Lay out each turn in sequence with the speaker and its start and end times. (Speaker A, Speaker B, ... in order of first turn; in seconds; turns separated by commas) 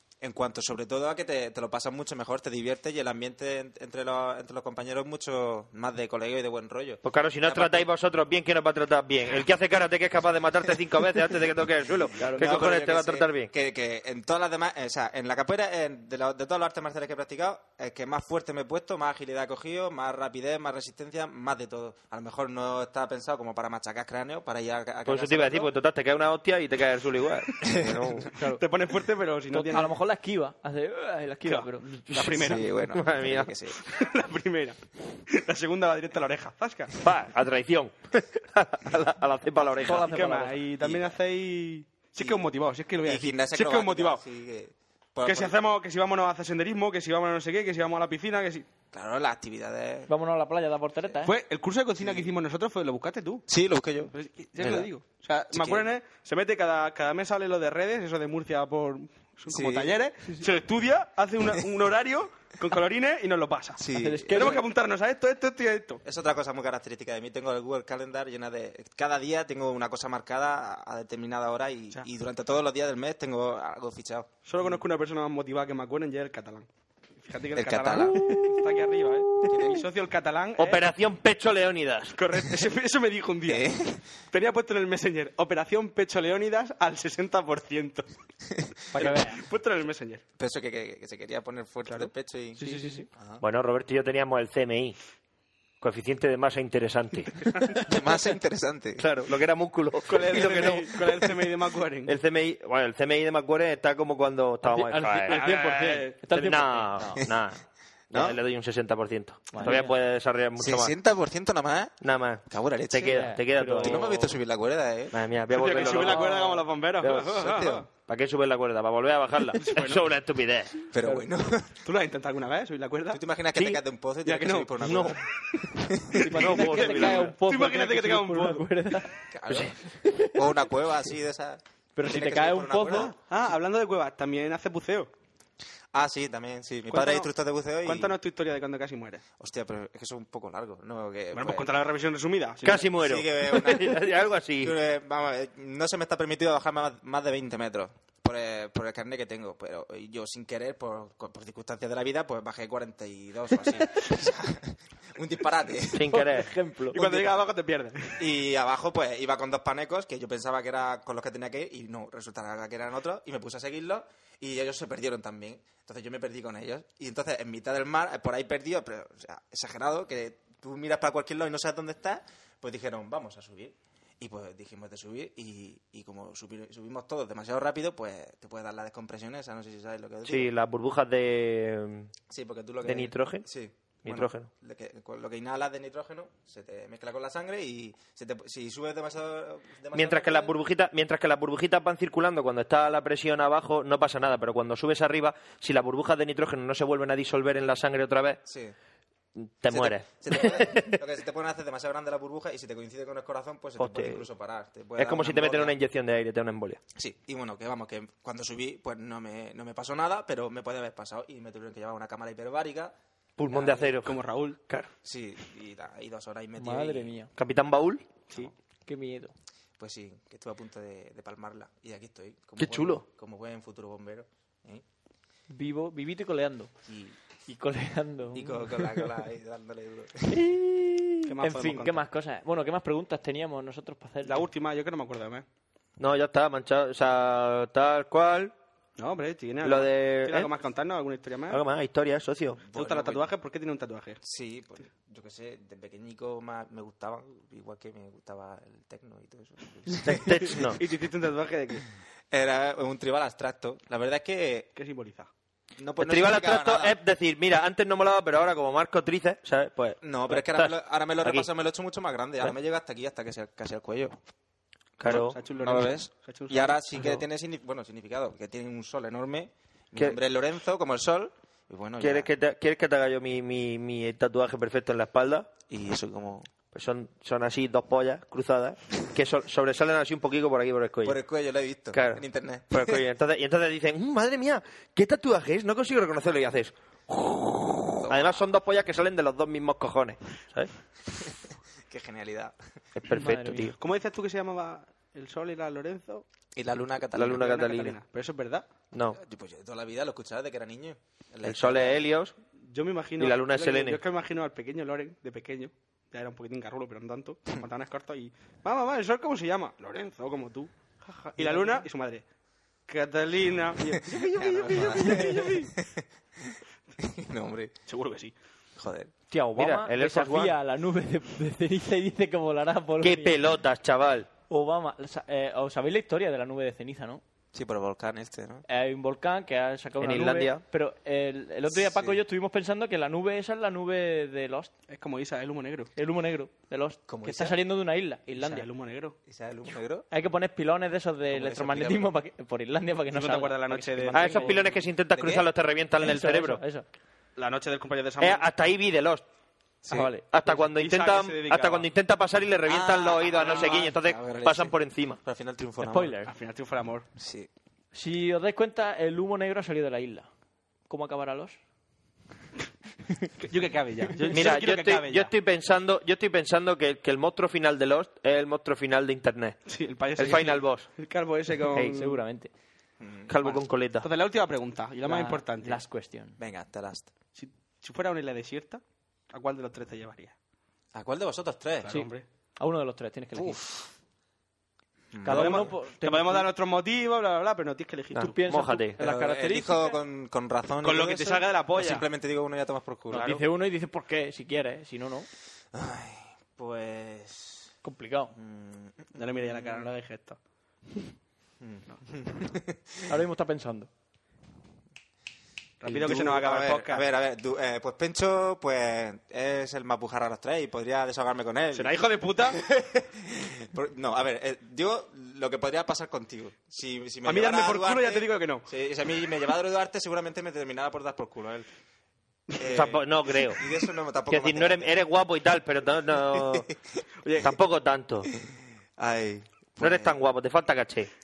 Speaker A: 0.2-7.9, Speaker B: 7.0-13.5, Speaker C: 12.2-12.6, Speaker A: 12.3-25.7, Speaker B: 25.1-28.3, Speaker A: 27.6-28.3, Speaker C: 28.3-28.6, Speaker D: 28.4-29.9, Speaker C: 29.5-32.0, Speaker D: 31.4-32.7, Speaker B: 32.1-33.5, Speaker A: 32.3-33.8, Speaker D: 33.8-37.0, Speaker B: 37.0-40.1, Speaker C: 39.8-40.6, Speaker D: 39.9-44.2, Speaker A: 40.8-41.2, Speaker A: 42.2-42.5, Speaker A: 43.0-45.5, Speaker D: 45.2-48.6, Speaker A: 48.9-50.1, Speaker C: 50.1-51.3, Speaker D: 51.2-53.5, Speaker A: 52.0-52.3, Speaker A: 53.5-54.9, Speaker D: 54.1-66.0, Speaker A: 55.5-55.9, Speaker A: 59.5-59.9, Speaker A: 63.8-64.6, Speaker C: 63.9-64.6, Speaker A: 66.0-74.8, Speaker D: 74.4-76.7, Speaker D: 77.2-80.8, Speaker A: 77.5-78.3, Speaker C: 78.1-78.6, Speaker A: 79.5-79.8, Speaker B: 80.6-82.2, Speaker D: 82.1-83.7, Speaker A: 83.5-84.0, Speaker D: 84.3-88.1, Speaker D: 88.9-90.2, Speaker C: 88.9-89.4, Speaker A: 90.4-93.4, Speaker D: 91.8-92.8, Speaker C: 92.6-93.1, Speaker B: 93.4-95.0, Speaker B: 95.8-97.8, Speaker A: 97.8-99.1, Speaker B: 99.0-101.4, Speaker D: 100.1-102.2, Speaker B: 102.0-105.4, Speaker C: 104.6-107.2, Speaker D: 105.2-106.2, Speaker B: 106.3-110.9, Speaker A: 108.1-108.4, Speaker C: 109.5-109.9, Speaker A: 110.6-112.0, Speaker B: 112.0-114.1, Speaker A: 112.5-115.2, Speaker C: 113.0-114.3, Speaker B: 115.1-116.4, Speaker D: 115.5-117.8, Speaker A: 115.7-116.2, Speaker C: 116.2-116.6, Speaker B: 117.0-120.8, Speaker A: 117.3-117.8, Speaker D: 119.5-120.0, Speaker A: 120.9-121.7, Speaker C: 121.0-121.3, Speaker D: 121.8-123.2, Speaker A: 123.1-126.3, Speaker B: 123.5-123.8, Speaker D: 124.2-125.2, Speaker B: 124.8-125.2, Speaker C: 126.1-129.3, Speaker B: 126.2-127.3, Speaker D: 126.2-128.7, Speaker A: 129.3-129.8, Speaker B: 129.5-129.7, Speaker C: 129.8-130.5, Speaker A: 130.3-133.1, Speaker C: 131.9-133.1, Speaker D: 132.8-135.1, Speaker A: 135.9-138.1, Speaker D: 136.9-137.3, Speaker D: 137.8-139.2, Speaker A: 139.4-141.7, Speaker D: 141.3-142.9, Speaker B: 142.6-144.8, Speaker A: 142.9-156.1, Speaker B: 155.9-156.5, Speaker C: 156.1-157.3, Speaker D: 156.9-158.3, Speaker A: 158.2-180.5, Speaker B: 180.2-182.1, Speaker A: 182.3-190.5, Speaker B: 182.8-183.4, Speaker B: 184.0-184.5, Speaker B: 189.9-198.4, Speaker A: 198.4-198.7, Speaker B: 199.3-201.0, Speaker A: 199.7-205.7, Speaker B: 203.8-204.2, Speaker B: 205.0-206.8, Speaker A: 206.9-212.9, Speaker B: 213.4-214.9, Speaker D: 213.5-214.6, Speaker A: 215.0-217.1, Speaker C: 216.6-217.3, Speaker B: 217.3-218.0, Speaker C: 218.8-219.3, Speaker A: 219.8-224.8, Speaker B: 222.6-223.0, Speaker C: 225.5-226.7, Speaker A: 226.8-227.2, Speaker C: 227.5-229.0, Speaker A: 228.3-230.4, Speaker B: 230.3-231.1, Speaker D: 231.2-232.0, Speaker C: 231.4-234.4, Speaker D: 234.2-235.4, Speaker B: 236.0-238.5, Speaker D: 239.0-241.6, Speaker B: 239.6-240.5, Speaker B: 241.5-242.6, Speaker A: 242.6-243.2, Speaker D: 242.7-244.2, Speaker A: 244.2-250.8, Speaker B: 250.0-250.8, Speaker D: 250.4-251.8, Speaker A: 252.3-254.7, Speaker D: 254.8-255.3, Speaker A: 255.8-256.9, Speaker B: 256.0-261.5, Speaker A: 260.0-264.2, Speaker B: 265.0-265.4, Speaker D: 265.0-266.8, Speaker A: 265.1-272.3, Speaker B: 272.0-275.5, Speaker A: 275.7-276.5, Speaker B: 276.7-281.2, Speaker A: 281.0-282.9, Speaker B: 281.9-290.7, Speaker A: 288.0-288.4, Speaker A: 291.9-292.6, Speaker B: 292.9-293.7, Speaker C: 293.1-293.7, Speaker D: 293.8-296.2, Speaker A: 296.6-297.4, Speaker B: 297.1-298.0, Speaker D: 297.3-298.6, Speaker B: 298.9-299.2, Speaker A: 299.1-302.0, Speaker B: 301.4-302.3, Speaker D: 302.6-312.2, Speaker B: 303.2-304.0, Speaker C: 311.4-311.8, Speaker D: 312.9-315.6, Speaker A: 314.0-316.1, Speaker C: 314.5-315.7, Speaker A: 317.0-317.7, Speaker D: 317.9-318.3, Speaker A: 318.8-319.1, Speaker C: 319.3-323.4, Speaker B: 319.5-320.5, Speaker B: 323.0-324.3, Speaker C: 324.5-327.2, Speaker A: 327.5-328.6, Speaker C: 328.7-334.7, Speaker B: 330.0-330.6, Speaker A: 331.7-332.2, Speaker D: 334.9-335.9, Speaker C: 335.9-338.6, Speaker A: 337.1-337.5, Speaker D: 338.3-339.2, Speaker A: 339.3-340.1, Speaker C: 340.1-344.7, Speaker A: 341.3-342.1, Speaker D: 343.1-344.8, Speaker B: 344.1-346.6, Speaker A: 345.1-345.5, Speaker C: 346.0-346.9, Speaker D: 347.4-348.4, Speaker B: 348.2-349.2, Speaker C: 349.9-350.6, Speaker B: 349.9-355.2, Speaker D: 350.6-351.9, Speaker A: 352.7-356.1, Speaker D: 353.5-353.8, Speaker C: 355.8-356.3, Speaker D: 356.3-357.1, Speaker A: 357.2-357.5, Speaker C: 357.9-360.3, Speaker C: 360.9-361.6, Speaker D: 363.4-365.3, Speaker B: 364.3-369.6, Speaker D: 369.7-372.2, Speaker B: 370.1-370.9, Speaker C: 371.8-372.5, Speaker A: 373.0-373.3, Speaker B: 373.3-374.1, Speaker D: 373.4-375.8, Speaker C: 375.0-376.4, Speaker A: 376.4-377.1, Speaker D: 377.4-380.3, Speaker A: 380.9-382.0, Speaker D: 381.8-382.2, Speaker C: 381.9-383.6, Speaker A: 383.4-383.8, Speaker A: 385.1-385.7, Speaker C: 385.2-386.5, Speaker D: 385.2-388.4, Speaker B: 388.1-389.0, Speaker C: 388.2-390.0, Speaker A: 389.0-393.4, Speaker D: 390.8-392.1, Speaker C: 393.1-395.3, Speaker A: 395.7-397.7, Speaker C: 397.8-398.3, Speaker A: 398.3-399.8, Speaker D: 399.1-400.4, Speaker A: 401.6-402.8, Speaker C: 403.1-403.9, Speaker D: 405.8-407.1, Speaker A: 405.8-412.0, Speaker D: 411.7-412.6, Speaker A: 412.5-421.7, Speaker D: 417.2-418.7, Speaker A: 422.6-424.9, Speaker B: 422.6-423.6, Speaker B: 424.3-426.7, Speaker A: 426.3-426.7, Speaker D: 427.2-427.5, Speaker B: 427.4-428.3, Speaker A: 429.0-430.2, Speaker B: 429.8-431.1